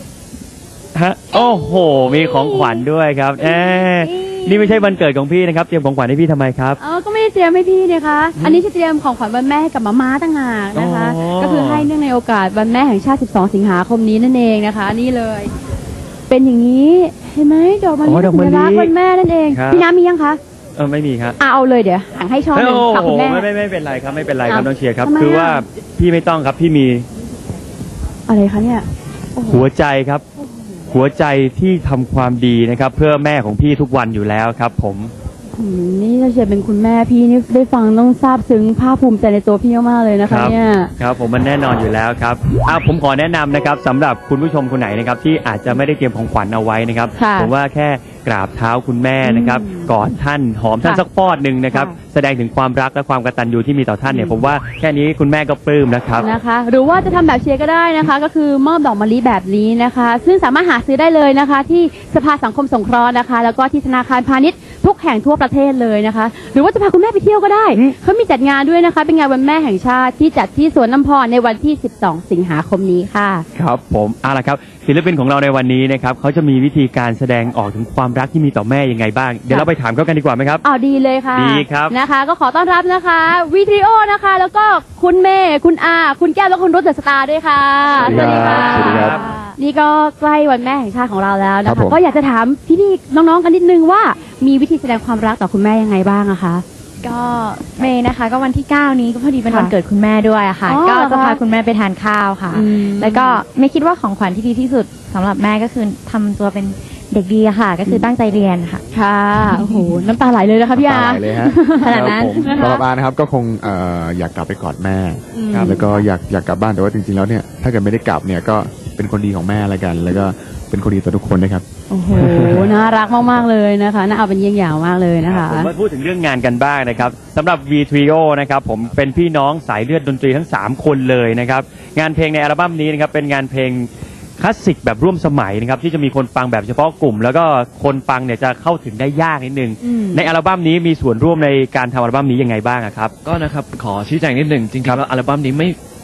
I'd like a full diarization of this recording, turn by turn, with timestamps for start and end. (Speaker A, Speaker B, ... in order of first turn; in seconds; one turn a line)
Speaker A: 0.9-6.8
Speaker B: 1.3-2.9
Speaker B: 3.4-5.0
Speaker B: 6.8-15.5
Speaker A: 10.8-11.9
Speaker B: 16.3-20.4
Speaker A: 18.1-18.9
Speaker A: 19.5-19.9
Speaker A: 20.8-21.4
Speaker B: 21.4-23.5
Speaker A: 22.6-27.1
Speaker B: 24.5-25.6
Speaker B: 28.3-28.9
Speaker B: 29.4-29.6
Speaker A: 29.5-30.2
Speaker A: 30.9-35.1
Speaker B: 35.5-40.9
Speaker A: 40.3-56.3
Speaker B: 47.2-47.5
Speaker B: 49.2-49.9
Speaker B: 54.1-54.4
Speaker B: 56.2-73.5
Speaker A: 73.5-80.6
Speaker B: 80.6-96.6
Speaker A: 81.3-81.9
Speaker C: 88.0-89.2
Speaker A: 88.0-89.2
Speaker C: 91.7-92.0
Speaker D: 97.0-108.8
Speaker B: 100.7-101.4
Speaker B: 102.5-103.4
Speaker B: 108.9-112.8
Speaker C: 110.8-122.7
Speaker D: 111.8-112.6
Speaker B: 115.3-116.0
Speaker B: 121.9-125.7
Speaker A: 125.3-133.9
Speaker A: 134.4-143.1
Speaker B: 139.8-140.2
Speaker E: 143.2-145.8